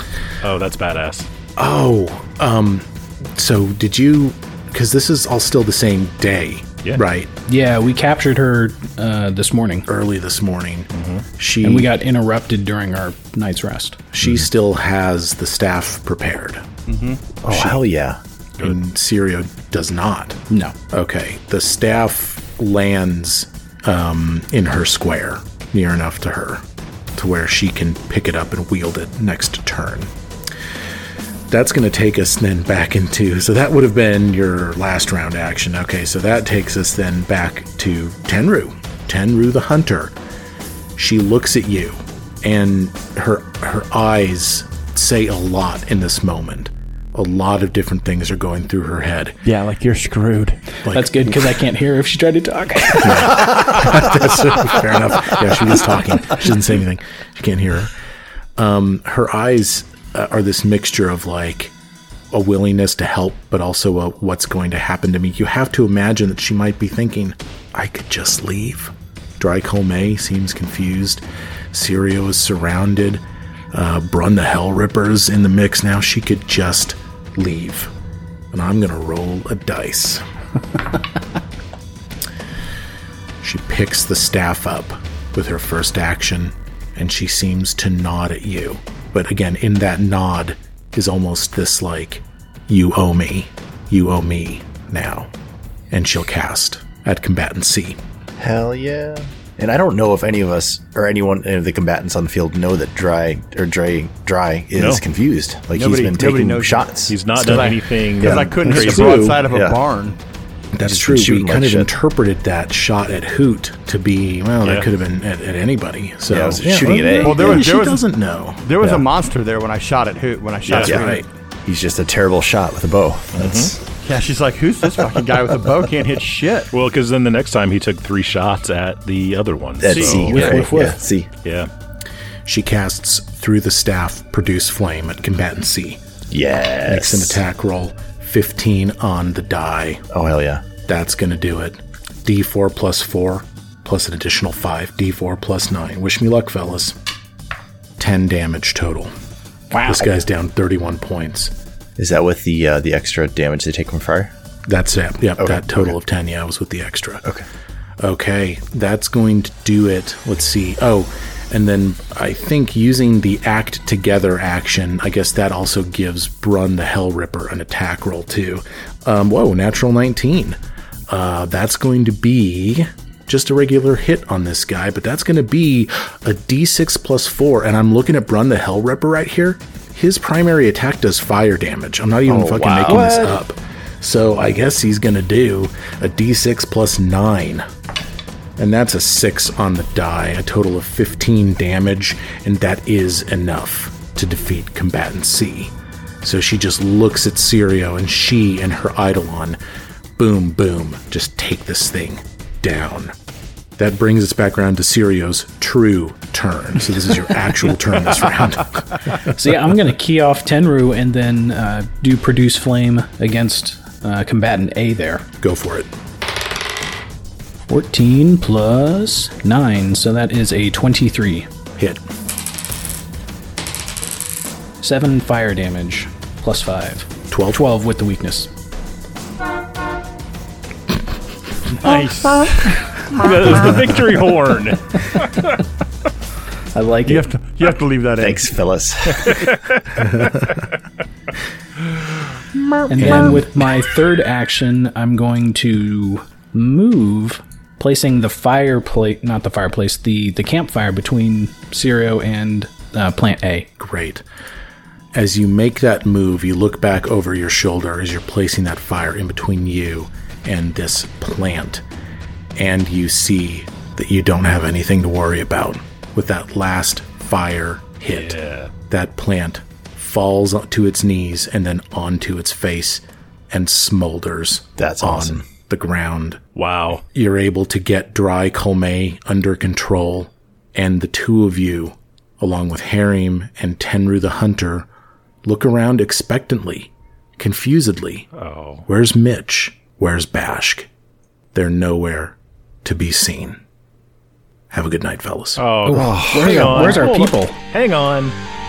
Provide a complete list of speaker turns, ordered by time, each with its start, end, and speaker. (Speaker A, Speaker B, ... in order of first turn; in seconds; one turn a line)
Speaker A: 0.4-1.3
Speaker B: 1.6-7.3
Speaker C: 7.5-9.9
Speaker B: 9.9-11.9
Speaker A: 10.9-11.2
Speaker C: 11.6-14.1
Speaker B: 14.1-16.6
Speaker D: 16.9-17.2
Speaker E: 17.4-18.2
Speaker B: 17.5-17.8
Speaker B: 18.6-20.4
Speaker C: 20.5-20.8
Speaker B: 20.9-26.6
Speaker B: 27.1-30.1
Speaker B: 31.5-40.1
Speaker B: 41.0-49.4
Speaker D: 49.5-50.6
Speaker B: 50.9-51.2
Speaker C: 50.9-53.7
Speaker B: 53.0-58.0
Speaker B: 58.6-61.7
Speaker B: 62.3-77.9
Speaker B: 78.5-80.2
Speaker B: 83.4-95.3
Speaker B: 95.9-98.0
Speaker E: 98.4-107.7
Speaker A: 104.8-105.0
Speaker D: 105.7-110.2
Speaker A: 107.1-109.2
Speaker E: 108.2-108.5
Speaker B: 108.6-109.4
Speaker E: 109.4-109.8
Speaker B: 110.7-118.6
Speaker E: 110.8-111.9
Speaker A: 114.6-114.9
Speaker E: 116.3-117.7
Speaker D: 117.2-118.0
Speaker D: 118.6-121.2
Speaker E: 118.8-119.1
Speaker E: 120.7-123.8
Speaker A: 120.7-121.0
Speaker B: 120.7-121.2
Speaker A: 123.4-123.8
Speaker D: 124.0-126.7
Speaker A: 126.7-130.7
Speaker E: 129.8-131.3
Speaker D: 129.9-130.3
Speaker C: 130.3-131.0
Speaker A: 131.4-131.7
Speaker B: 132.5-136.0
Speaker E: 136.3-137.4
Speaker B: 136.9-140.0
Speaker E: 140.1-140.7
Speaker B: 140.9-146.9
Speaker B: 148.0-149.1
Speaker C: 149.7-150.0
Speaker B: 149.8-151.5
Speaker E: 152.0-154.3
Speaker B: 154.7-157.2
Speaker E: 155.4-155.9
Speaker B: 158.0-170.6
Speaker B: 171.1-187.7
Speaker E: 182.3-183.4
Speaker A: 182.5-183.2
Speaker B: 188.6-199.6
Speaker B: 200.2-203.1
Speaker B: 203.8-208.9
Speaker C: 209.2-215.3
Speaker B: 215.4-215.9
Speaker C: 217.7-221.5
Speaker B: 221.8-222.0
Speaker C: 224.8-228.5
Speaker B: 227.3-227.7
Speaker D: 231.8-232.8
Speaker A: 233.0-235.6
Speaker C: 236.7-237.2
Speaker D: 237.1-238.5
Speaker E: 238.2-239.4
Speaker C: 242.9-253.7
Speaker E: 243.0-243.5
Speaker B: 243.0-243.4
Speaker B: 253.8-254.2
Speaker B: 255.1-261.8
Speaker B: 262.6-268.4
Speaker A: 268.1-268.7
Speaker B: 268.9-276.4
Speaker E: 274.8-275.4
Speaker A: 276.6-277.0
Speaker B: 277.1-284.9
Speaker B: 285.4-288.3
Speaker A: 288.4-288.9
Speaker B: 288.9-290.9
Speaker B: 291.5-293.6
Speaker B: 294.7-295.6
Speaker A: 295.6-298.4
Speaker C: 295.9-297.6
Speaker E: 295.9-297.1